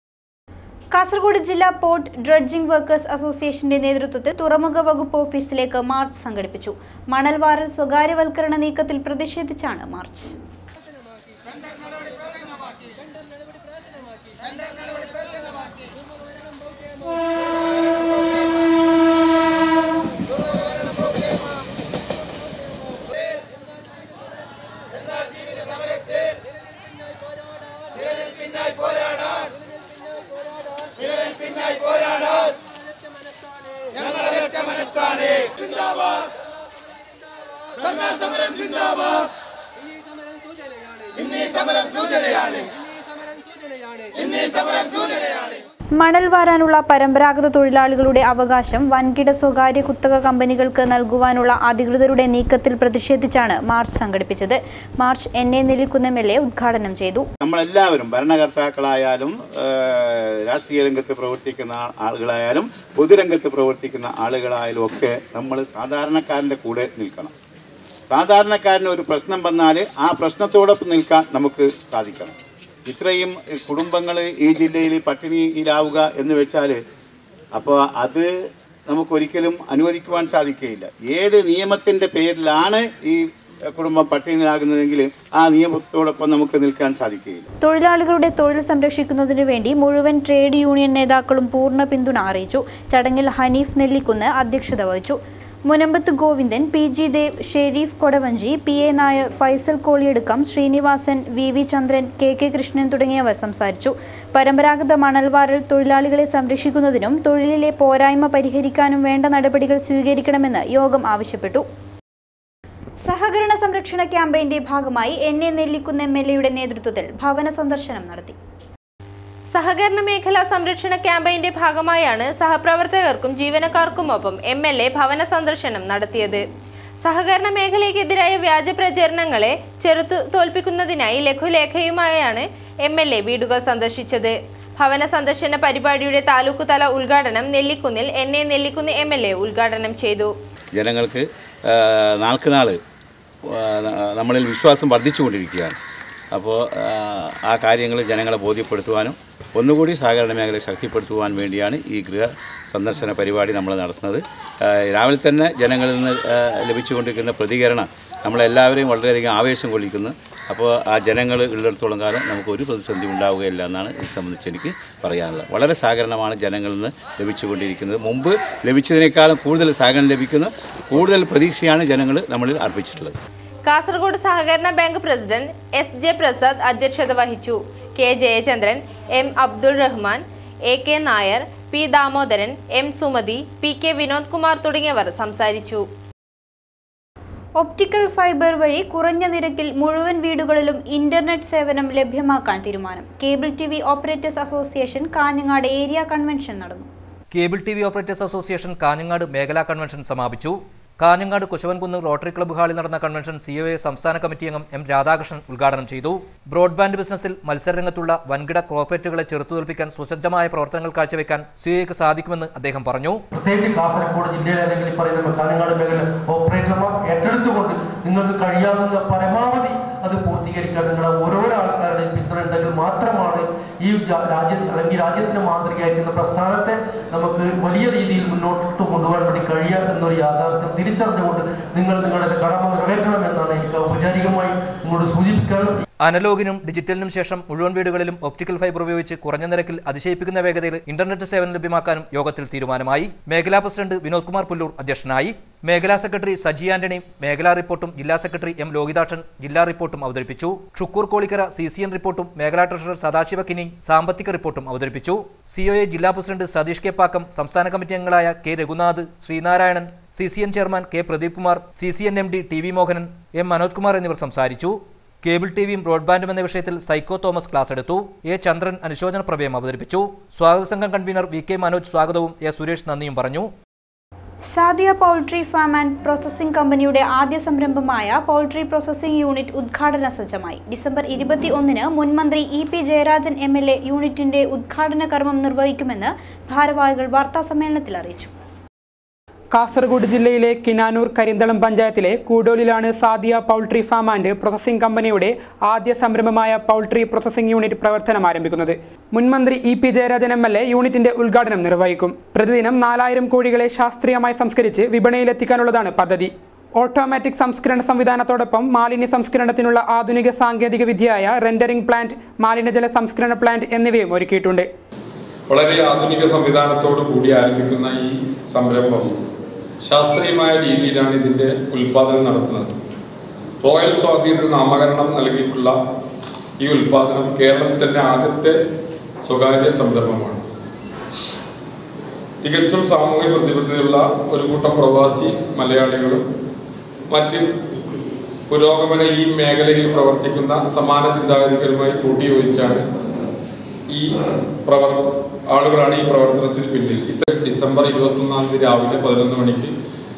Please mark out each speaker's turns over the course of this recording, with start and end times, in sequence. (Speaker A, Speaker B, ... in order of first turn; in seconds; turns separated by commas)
Speaker A: 0.9-10.3, Speaker A: 46.0-57.3, Speaker B: 57.4-67.3, Speaker B: 68.1-72.3, Speaker B: 72.9-76.8, Speaker B: 77.5-78.3, Speaker B: 78.9-87.5, Speaker A: 87.6-111.6, Speaker A: 113.0-118.3, Speaker C: 119.5-126.4, Speaker C: 127.0-140.3, Speaker B: 140.8-142.8, Speaker B: 143.5-145.8, Speaker B: 146.3-173.2, Speaker C: 173.7-185.8, Speaker A: 187.6-196.9, Speaker D: 197.3-213.2, Speaker E: 213.3-235.7, Speaker D: 236.0-273.5, Speaker A: 274.5-288.3, Speaker F: 289.5-314.7, Speaker G: 315.5-319.2, Speaker G: 319.8-322.8, Speaker G: 323.6-325.8, Speaker G: 326.6-328.6, Speaker G: 329.2-330.5, Speaker G: 332.4-336.2, Speaker G: 337.1-337.5, Speaker G: 338.5-342.8, Speaker G: 343.9-349.7